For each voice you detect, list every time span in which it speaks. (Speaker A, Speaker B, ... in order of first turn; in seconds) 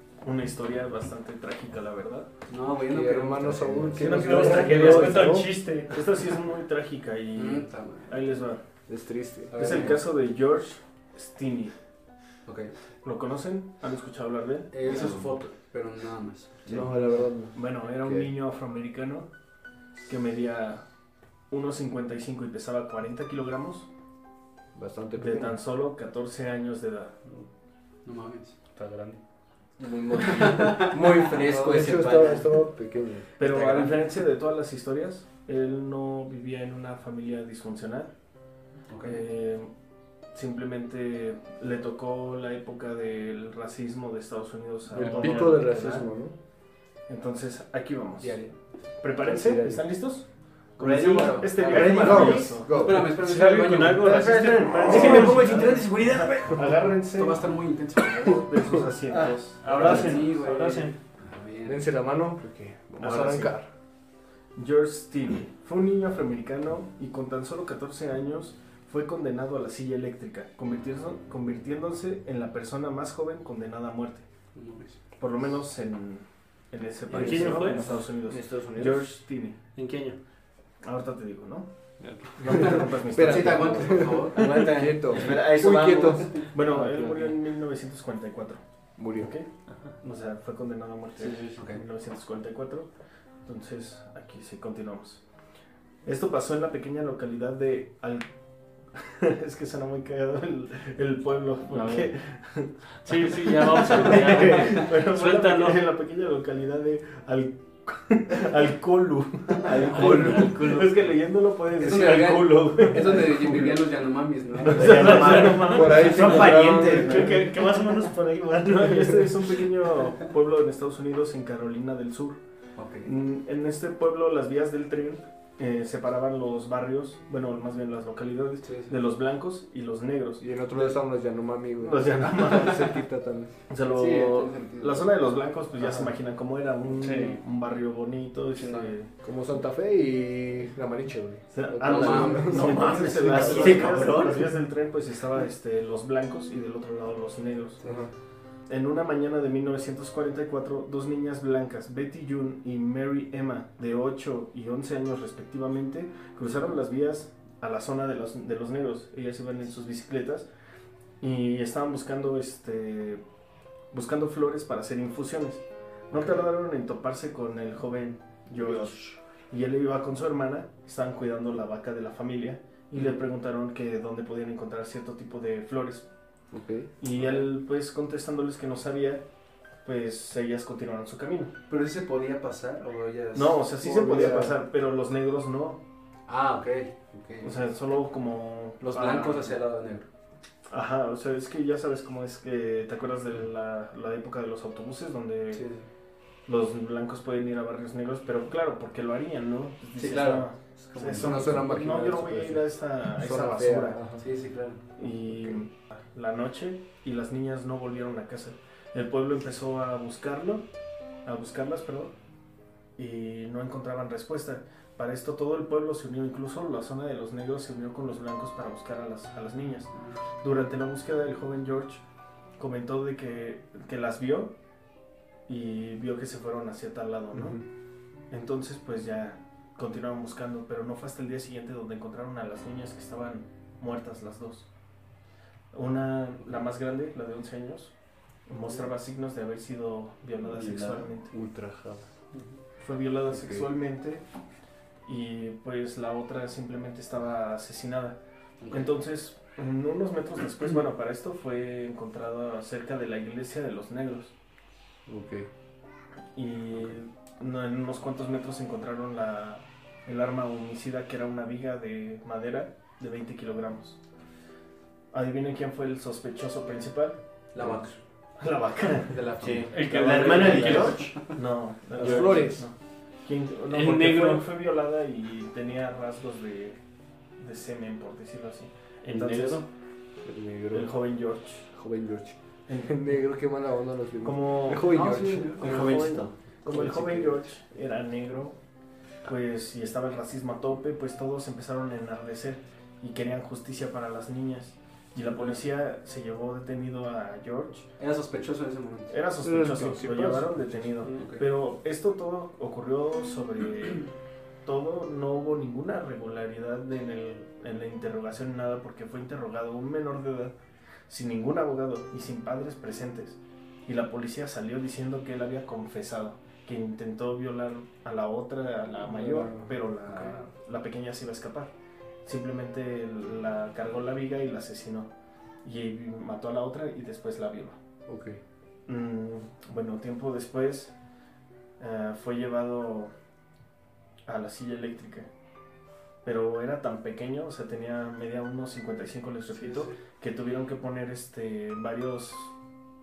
Speaker A: 0.2-2.3, 4.0-8.6, 9.5-11.7, 13.0-15.2, 17.5-19.3, 20.0-20.9, 21.5-23.9, 25.2-27.2, 33.4-38.1, 39.0-39.7, 40.3-46.1, 47.1-48.4, 49.0-52.7, 54.8-57.5, 58.2-60.2, 63.0-63.6, 64.5-74.2, 75.2-79.6, 80.8-81.7, 82.4-84.0, 86.4-88.6, 89.1-92.9, 93.4-95.2, 96.0-98.3, 98.9-113.8, 114.6-122.4, 123.0-131.0, 131.8-133.0, 133.7-139.1, 141.5-147.9, 148.7-160.5, 161.2-163.2, 163.9-176.1, 177.0-179.2, 179.8-181.5, 183.3-185.8, 187.4-189.5, 190.7-195.7, 196.4-204.1, 205.0-210.7, 211.2-212.1, 213.0-222.0, 222.6-224.5, 225.5-227.6, 228.3-234.7, 235.7-237.9, 238.5-241.3, 242.8-244.2, 245.0-248.2, 248.7-254.3, 256.3-264.0, 265.1-267.2, 268.4-269.2, 270.1-276.8, 277.4-279.6, 280.7-281.7, 282.7-283.0, 284.2-285.0, 285.6-288.6, 289.2-297.9, 299.1-304.1, 304.6-310.5, 311.1-321.7, 322.2-325.1, 325.6-327.8, 328.9-330.9, 331.8-333.1, 334.3-335.3, 336.2-342.5
Speaker B: 2.5-4.8, 7.3-8.2, 9.5-10.0, 12.4-12.7, 14.7-16.9, 28.0-28.6, 30.2-30.9, 33.5-33.9, 38.9-39.2, 48.2-48.5, 50.8-54.3, 55.0-55.2, 57.0-58.5, 59.6-61.9, 74.5-75.0, 82.5-84.7, 91.2-91.8, 111.8-115.4, 122.8-123.1, 128.6-129.0, 133.9-135.1, 138.5-138.9, 141.8-143.7, 172.9-173.2, 177.1-177.5, 181.7-183.7, 186.3-187.5, 188.8-190.1, 195.5-195.8, 199.9-201.4, 204.2-204.8, 248.6-248.9, 267.5-268.0, 269.1-271.3, 284.8-285.9, 295.2-295.5, 298.0-299.2, 301.1-301.4, 339.5-339.9
Speaker C: 2.8-5.5, 8.9-10.0, 16.6-18.3, 24.7-25.6, 31.5-33.3, 44.9-46.3, 49.2-49.8, 51.7-53.1, 61.6-63.7, 77.1-79.0, 82.6-87.4, 89.0-89.3, 115.7-117.3, 130.4-133.5, 135.8-136.1, 139.2-144.4, 147.8-148.1, 176.5-176.9, 183.8-184.6, 201.1-204.2, 227.3-227.6, 241.3-242.1, 243.3-243.6, 255.1-255.5, 271.9-272.6, 280.2-280.9, 281.7-285.6, 286.6-287.5, 299.4-300.9, 319.0-320.3, 328.1-328.4
Speaker D: 4.0-6.0, 28.7-29.2, 52.9-55.8, 59.6-61.0, 77.1-78.0, 79.7-80.2, 82.0-82.6, 101.7-102.1, 103.0-105.8, 109.8-111.1, 111.8-113.3, 114.7-119.2, 137.0-137.4, 269.7-271.2, 273.7-274.5, 279.1-279.7
Speaker E: 14.8-15.2, 29.8-32.6, 50.8-52.5, 54.0-56.8, 59.1-59.4, 78.3-78.8, 84.3-86.5, 109.6-110.5, 114.8-117.5, 143.1-144.6, 168.5-169.1, 240.5-241.0, 269.4-271.3, 285.6-286.3